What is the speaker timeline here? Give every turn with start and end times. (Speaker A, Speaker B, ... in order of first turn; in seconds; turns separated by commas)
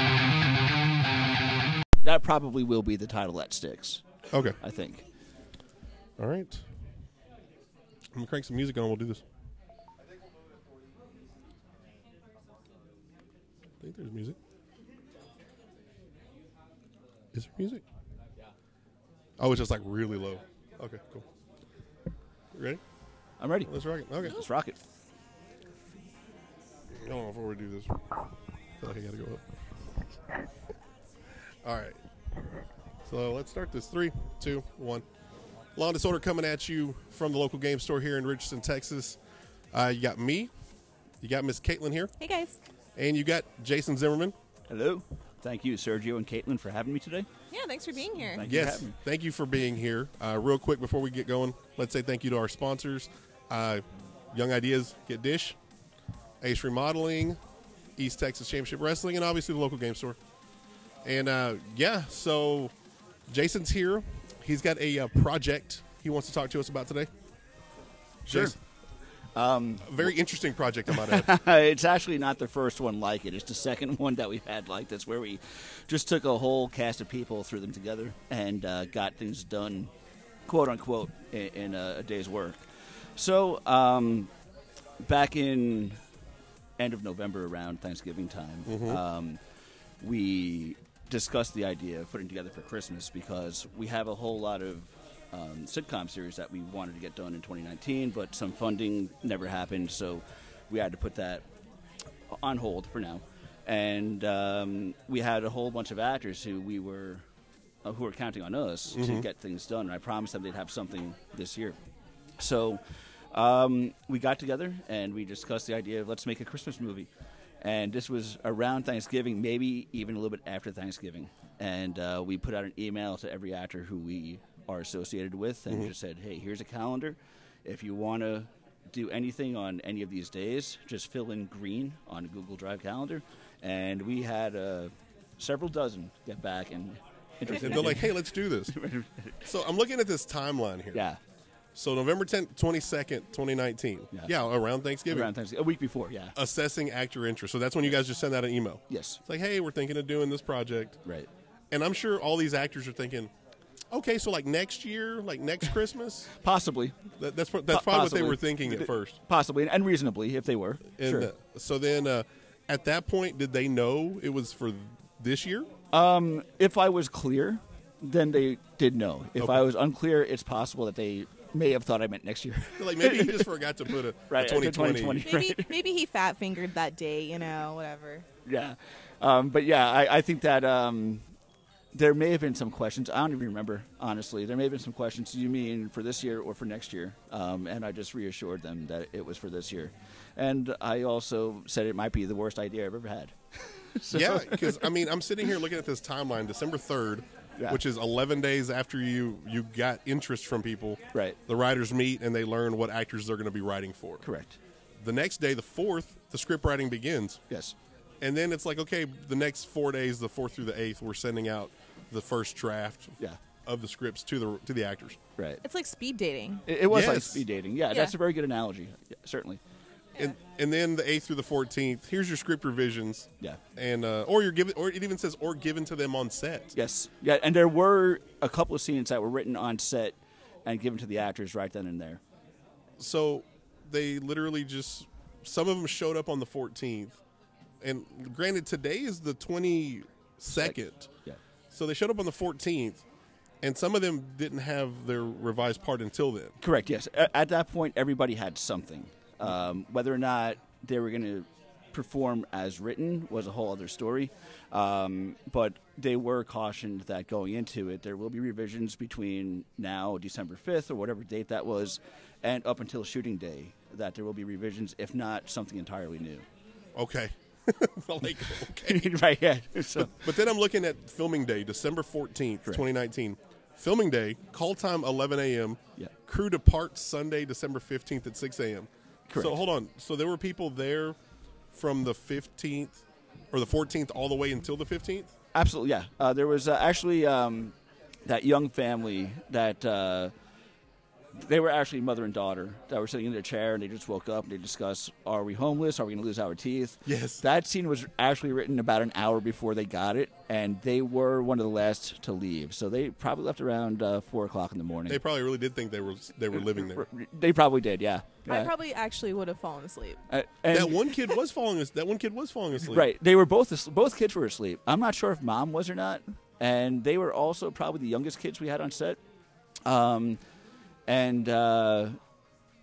Speaker A: 2.0-4.0, Speaker B: 4.3-4.6, Speaker A: 4.6-5.1, Speaker B: 6.2-6.6, Speaker B: 8.1-9.2, Speaker B: 13.8-14.4, Speaker B: 17.3-17.8, Speaker B: 19.4-21.3, Speaker B: 22.5-22.8, Speaker A: 23.4-24.8, Speaker B: 23.7-24.4, Speaker B: 26.9-28.0, Speaker B: 28.8-29.5, Speaker B: 31.6-32.0, Speaker B: 33.0-35.0, Speaker B: 35.8-39.2, Speaker B: 39.7-40.5, Speaker B: 41.2-42.1, Speaker C: 42.2-42.6, Speaker B: 43.0-44.4, Speaker A: 44.7-47.3, Speaker C: 47.5-48.4, Speaker A: 48.3-48.9, Speaker B: 48.4-55.6, Speaker B: 56.4-57.4, Speaker B: 58.0-60.2, Speaker B: 61.0-62.7, Speaker B: 63.3-67.1, Speaker A: 68.2-68.6, Speaker B: 68.3-68.6, Speaker A: 69.3-70.1, Speaker B: 69.8-71.3, Speaker A: 70.9-79.9, Speaker A: 80.5-82.6, Speaker A: 83.2-84.3, Speaker A: 85.0-86.0, Speaker A: 86.8-89.4, Speaker B: 88.7-89.0, Speaker A: 90.0-101.5, Speaker A: 102.3-107.2, Speaker A: 107.8-111.8, Speaker B: 108.9-109.2, Speaker A: 112.4-117.1, Speaker A: 117.6-139.4, Speaker B: 137.5-138.7, Speaker B: 139.4-141.0, Speaker A: 140.9-141.2, Speaker B: 141.7-145.3, Speaker A: 145.1-146.4, Speaker B: 146.3-151.0, Speaker A: 148.9-149.2, Speaker B: 151.7-153.3, Speaker B: 153.9-156.3, Speaker A: 156.4-157.0, Speaker B: 157.2-159.2, Speaker A: 157.7-161.3, Speaker B: 161.0-165.7, Speaker A: 165.9-173.5, Speaker B: 169.4-169.6, Speaker B: 172.8-175.3, Speaker A: 174.3-175.8, Speaker C: 175.2-178.3, Speaker A: 178.5-181.2, Speaker A: 181.9-195.0, Speaker B: 194.1-204.3, Speaker A: 204.2-204.6, Speaker B: 205.0-207.4, Speaker A: 207.5-207.8, Speaker B: 208.2-215.2, Speaker C: 215.6-216.7, Speaker A: 216.7-219.6, Speaker B: 216.9-217.5, Speaker B: 220.2-226.7, Speaker A: 226.7-232.2, Speaker B: 233.0-237.2, Speaker B: 237.8-241.1, Speaker A: 240.6-241.4, Speaker B: 241.7-243.0, Speaker B: 243.6-246.6, Speaker A: 246.6-266.5, Speaker B: 266.9-269.1, Speaker A: 268.5-270.3, Speaker B: 270.0-281.2, Speaker A: 279.3-279.6, Speaker B: 281.7-285.3, Speaker A: 285.5-287.7, Speaker A: 288.3-290.3, Speaker A: 291.4-305.2, Speaker B: 297.1-297.4, Speaker B: 305.1-307.1, Speaker A: 306.6-308.7, Speaker C: 308.5-310.2, Speaker A: 310.3-311.2, Speaker B: 310.7-313.1, Speaker A: 312.8-319.2, Speaker A: 319.8-320.4, Speaker A: 321.1-322.2